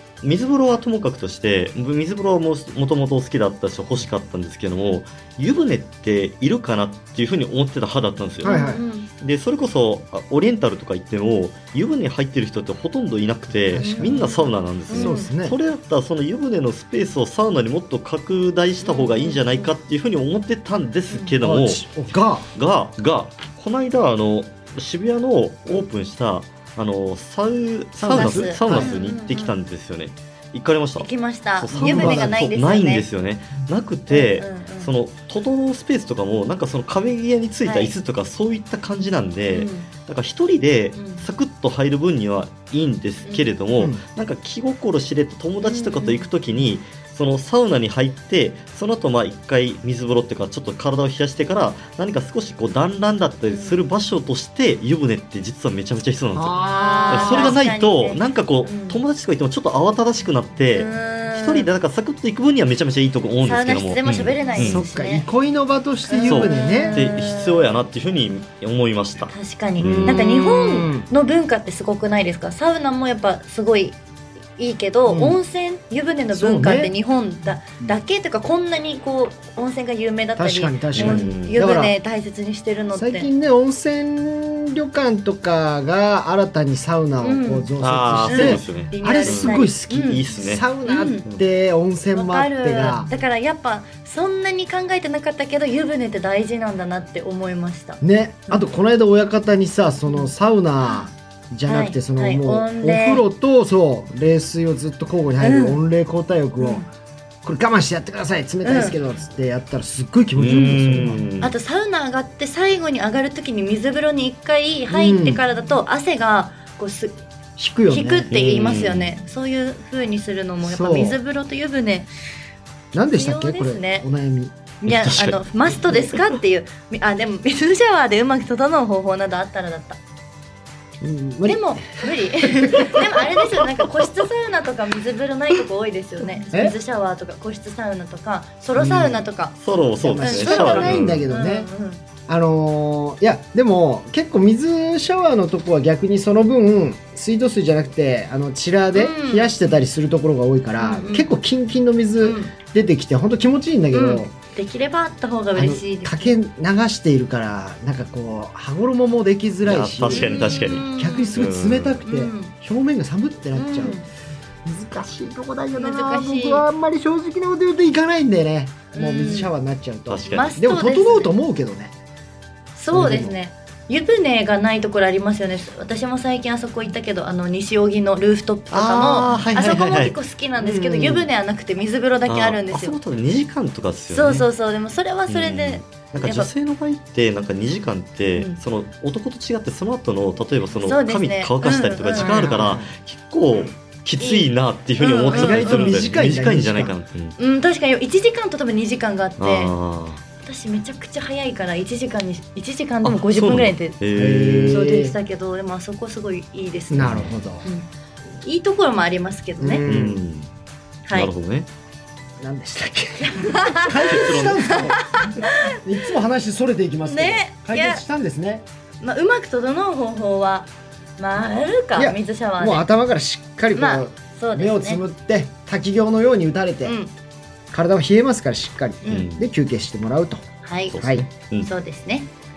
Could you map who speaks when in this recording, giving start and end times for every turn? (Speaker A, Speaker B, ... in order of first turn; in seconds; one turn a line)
Speaker A: 0.2-21.8
Speaker B: 8.4-8.8
Speaker C: 8.4-9.1
Speaker B: 13.7-14.2
Speaker C: 13.8-15.3
Speaker B: 14.9-15.6
Speaker C: 18.8-19.7
Speaker B: 21.4-22.4
Speaker A: 22.5-56.6
Speaker B: 28.0-29.0
Speaker C: 28.1-29.5
Speaker C: 31.0-33.0
Speaker B: 31.7-32.4
Speaker C: 34.1-34.9
Speaker C: 37.6-37.9
Speaker C: 39.5-39.9
Speaker C: 41.0-41.2
Speaker C: 43.2-43.5
Speaker B: 43.8-44.0
Speaker C: 45.6-46.3
Speaker C: 53.5-53.8
Speaker B: 56.3-57.6
Speaker C: 56.6-59.0
Speaker A: 57.1-64.8
Speaker C: 60.7-61.7
Speaker C: 63.4-65.2
Speaker B: 64.6-67.0
Speaker C: 66.1-67.7
Speaker A: 66.2-70.2
Speaker C: 69.3-74.0
Speaker B: 69.8-71.1
Speaker C: 74.6-83.3
Speaker B: 75.1-75.4
Speaker B: 76.3-76.9
Speaker B: 80.4-81.9
Speaker A: 80.9-81.6
Speaker B: 82.9-93.1
Speaker C: 87.2-87.7
Speaker A: 87.8-90.7
Speaker C: 88.2-90.2
Speaker C: 90.8-91.3
Speaker C: 92.1-98.6
Speaker B: 98.0-106.8
Speaker C: 101.7-103.2
Speaker C: 105.4-105.8
Speaker C: 106.6-106.9
Speaker B: 107.4-111.2
Speaker C: 108.6-109.0
Speaker A: 110.3-111.5
Speaker C: 111.4-117.2
Speaker B: 114.9-115.4
Speaker B: 117.6-118.3
Speaker C: 117.9-122.1
Speaker A: 118.3-119.1
Speaker B: 120.6-121.2
Speaker B: 122.9-124.5
Speaker C: 123.1-124.0
Speaker C: 124.8-130.0
Speaker A: 124.8-126.2
Speaker B: 131.0-131.6
Speaker C: 131.4-139.5
Speaker B: 136.5-136.8
Speaker B: 138.8-139.2
Speaker A: 139.6-141.2
Speaker B: 140.0-141.7
Speaker C: 140.2-142.0
Speaker B: 142.3-154.3
Speaker C: 148.9-149.6
Speaker C: 150.8-151.3
Speaker C: 152.2-152.5
Speaker C: 153.9-156.4
Speaker B: 155.6-164.0
Speaker A: 159.6-162.0
Speaker C: 160.1-161.4
Speaker C: 162.0-162.5
Speaker C: 163.5-164.1
Speaker B: 164.6-171.9
Speaker C: 165.7-166.7
Speaker C: 168.9-169.5
Speaker A: 170.1-170.5
Speaker C: 170.3-171.3
Speaker C: 172.8-183.0
Speaker B: 172.9-173.3
Speaker A: 178.7-180.1
Speaker B: 180.6-181.3
Speaker A: 182.3-184.5
Speaker C: 184.1-186.5
Speaker A: 185.3-197.4
Speaker C: 188.3-188.6
Speaker C: 190.8-192.3
Speaker B: 192.1-192.9
Speaker C: 194.2-194.5
Speaker C: 195.0-195.9
Speaker B: 195.3-196.9
Speaker C: 197.4-199.7
Speaker A: 199.4-200.2
Speaker C: 200.4-204.0
Speaker A: 203.0-204.8
Speaker B: 204.1-205.1
Speaker C: 204.7-207.9
Speaker B: 206.9-207.6
Speaker A: 207.0-207.3
Speaker C: 208.4-209.8
Speaker B: 209.6-210.2
Speaker A: 209.8-210.5
Speaker A: 211.1-211.7
Speaker B: 212.4-215.2
Speaker C: 213.2-215.8
Speaker A: 213.9-214.9
Speaker B: 215.8-218.7
Speaker C: 217.0-218.0
Speaker C: 219.0-222.8
Speaker B: 221.9-227.0
Speaker C: 223.7-225.0
Speaker C: 226.8-227.1
Speaker B: 227.7-230.4
Speaker C: 229.0-229.3
Speaker A: 229.1-229.4
Speaker C: 230.6-231.0
Speaker A: 230.9-231.7
Speaker B: 231.0-231.2
Speaker C: 231.6-232.3